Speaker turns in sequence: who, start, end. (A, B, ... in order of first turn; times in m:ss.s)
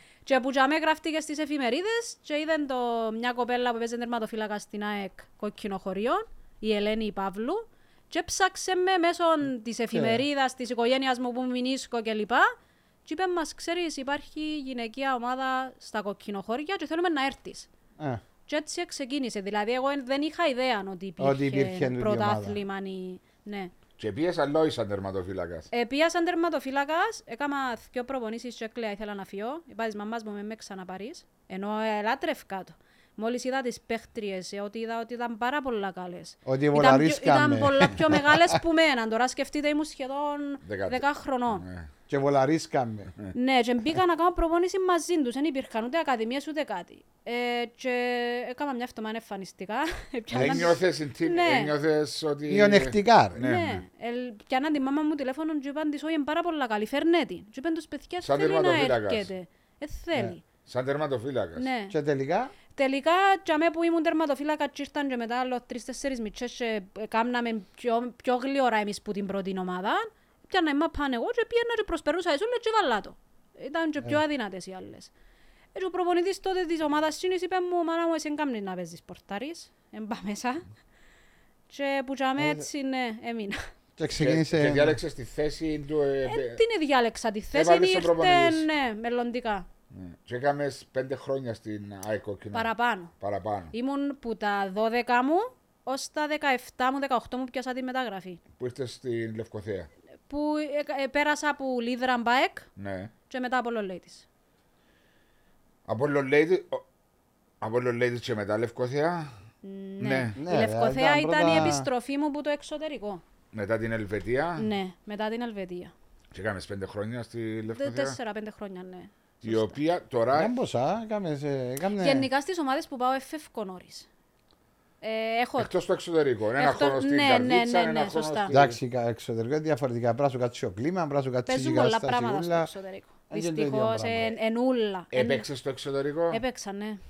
0:00.2-0:12.5 A
0:09.9-0:10.2 B
0:13.0-0:17.7 A
0:18.5-0:23.7 A
0:21.2-0:22.6 B
0:24.0-0:25.7 C
0:25.7-0:41.6 A
0:36.4-0:38.6 B
0:40.6-0:41.9 C
0:42.1-0:43.1 B
0:43.3-0:51.7 A
0:50.3-0:53.8 C
0:50.3-0:50.7 B
0:52.5-0:53.4 B
0:53.4-1:00.4 A
0:58.2-0:59.3 C
1:00.6-1:01.7 C
1:01.6-1:01.9 A
1:01.9-1:02.5 B
1:02.7-1:15.1 A
1:15.7-1:20.6 A
1:21.7-1:23.6 A
1:22.4-1:22.6 B
1:24.0-1:25.0 B
1:24.2-1:26.6 C
1:26.2-1:29.7 A
1:27.5-1:28.7 C
1:29.9-1:33.7 C
1:32.5-1:33.1 A
1:33.7-1:38.4 A
1:38.6-1:39.9 C
1:40.3-1:42.6 A
1:42.8-1:43.1 C
1:43.3-1:44.2 A
1:45.9-1:46.8 C
1:47.6-1:49.4 C
1:49.6-1:53.2 A
1:50.0-1:50.4 C
1:50.4-1:51.9 B
1:53.5-1:54.7 C
1:54.6-1:55.9 A
1:56.3-1:58.2 C
1:57.7-1:59.8 A
1:59.4-2:00.5 C
2:00.3-2:02.3 B
2:02.0-2:04.1 A
2:05.0-2:05.7 A
2:05.6-2:08.8 C
2:06.6-2:08.5 A
2:08.5-2:12.7 B
2:11.5-2:15.5 A
2:13.3-2:14.4 B
2:15.1-2:16.4 C
2:16.3-2:17.0 A